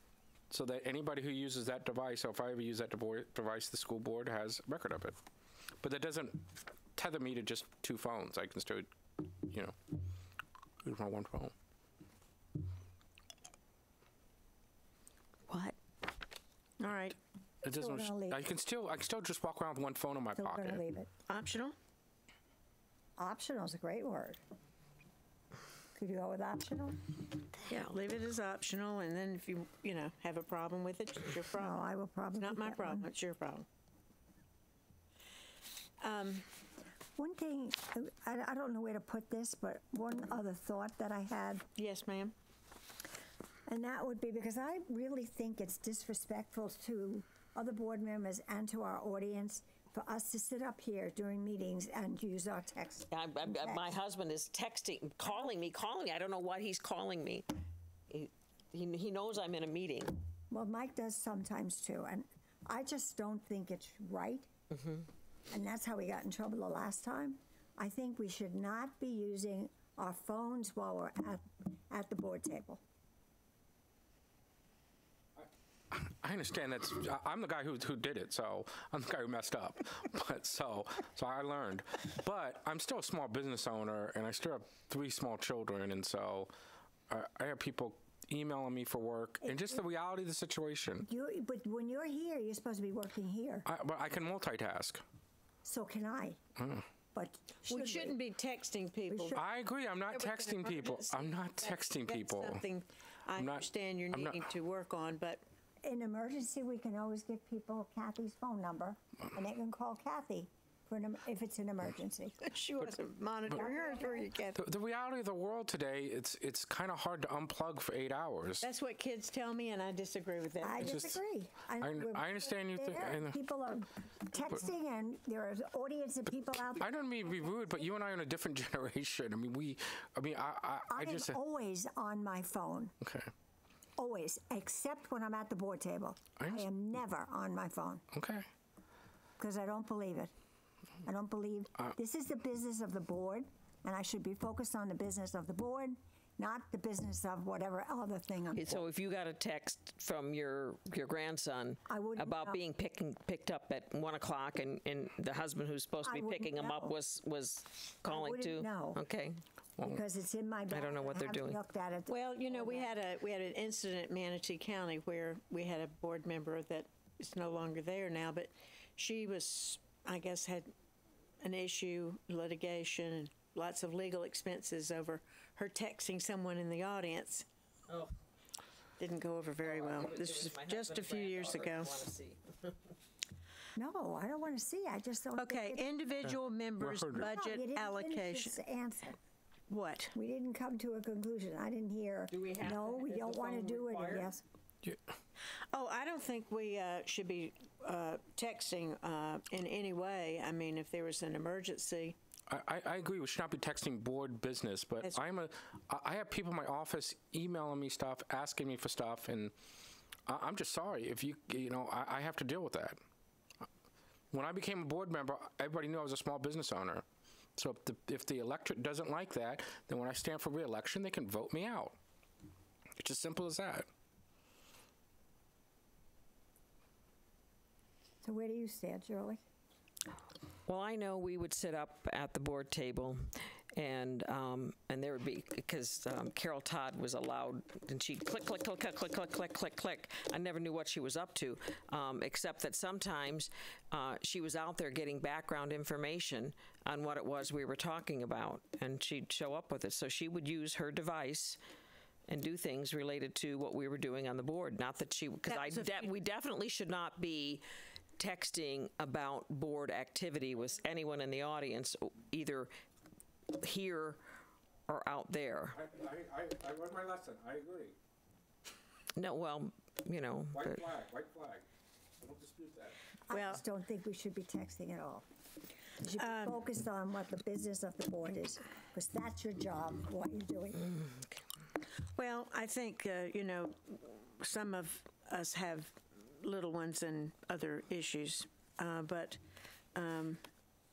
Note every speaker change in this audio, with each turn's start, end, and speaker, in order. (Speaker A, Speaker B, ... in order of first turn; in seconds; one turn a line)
Speaker A: 0.5-5.2
Speaker A: 5.8-9.8
Speaker A: 10.8-11.5
Speaker B: 16.8-17.2
Speaker A: 17.6-20.8
Speaker C: 17.7-18.4
Speaker C: 20.4-21.1
Speaker B: 21.3-21.8
Speaker C: 23.2-24.4
Speaker C: 25.9-27.2
Speaker B: 27.7-31.8
Speaker C: 31.6-33.1
Speaker B: 32.4-33.7
Speaker B: 36.0-36.5
Speaker C: 37.2-41.6
Speaker B: 41.8-42.3
Speaker C: 43.7-53.9
Speaker D: 53.1-57.5
Speaker D: 58.1-60.2
Speaker C: 60.5-64.5
Speaker D: 64.7-65.1
Speaker C: 65.5-72.8
Speaker A: 75.9-86.5
Speaker A: 87.1-91.1
Speaker C: 91.1-93.7
Speaker A: 93.7-95.0
Speaker C: 95.7-96.4
Speaker A: 96.6-96.8
Speaker C: 97.1-98.2
Speaker B: 97.7-99.4
Speaker C: 99.1-99.4
Speaker A: 99.3-102.7
Speaker B: 100.1-105.4
Speaker A: 103.4-104.5
Speaker C: 105.8-112.5
Speaker B: 112.4-114.6
Speaker C: 113.5-114.3
Speaker A: 114.5-118.7
Speaker B: 118.6-121.0
Speaker C: 120.6-126.9
Speaker A: 120.8-121.2
Speaker A: 121.8-123.4
Speaker A: 126.8-131.4
Speaker C: 130.9-132.9
Speaker A: 133.0-133.3
Speaker C: 134.0-138.0
Speaker A: 136.4-136.7
Speaker A: 138.1-138.5
Speaker C: 139.4-140.3
Speaker C: 141.1-148.8
Speaker D: 148.6-159.4
Speaker C: 151.9-152.6
Speaker C: 156.0-157.0
Speaker C: 158.1-159.0
Speaker C: 159.8-162.9
Speaker D: 160.7-161.6
Speaker B: 162.1-170.7
Speaker B: 171.4-177.4
Speaker D: 177.9-178.2
Speaker B: 179.0-182.0
Speaker D: 179.6-182.8
Speaker C: 183.8-185.9
Speaker B: 185.4-188.6
Speaker A: 186.2-187.3
Speaker C: 187.2-189.2
Speaker B: 189.7-190.1
Speaker C: 190.1-194.4
Speaker D: 192.3-194.4
Speaker B: 195.7-202.2
Speaker A: 202.5-209.5
Speaker A: 210.3-213.0
Speaker A: 214.3-217.0
Speaker A: 217.6-222.0
Speaker A: 223.0-223.9
Speaker C: 228.2-229.4
Speaker D: 230.7-251.6
Speaker D: 252.3-257.6
Speaker B: 255.5-256.1
Speaker D: 258.2-262.7
Speaker D: 263.5-264.2
Speaker D: 264.9-265.8
Speaker A: 265.7-268.0
Speaker D: 269.2-270.8
Speaker A: 270.5-271.6
Speaker A: 272.2-273.0
Speaker C: 273.3-275.2
Speaker B: 273.3-273.6
Speaker C: 276.0-281.0
Speaker B: 276.2-276.5
Speaker B: 282.1-289.4
Speaker B: 289.9-290.4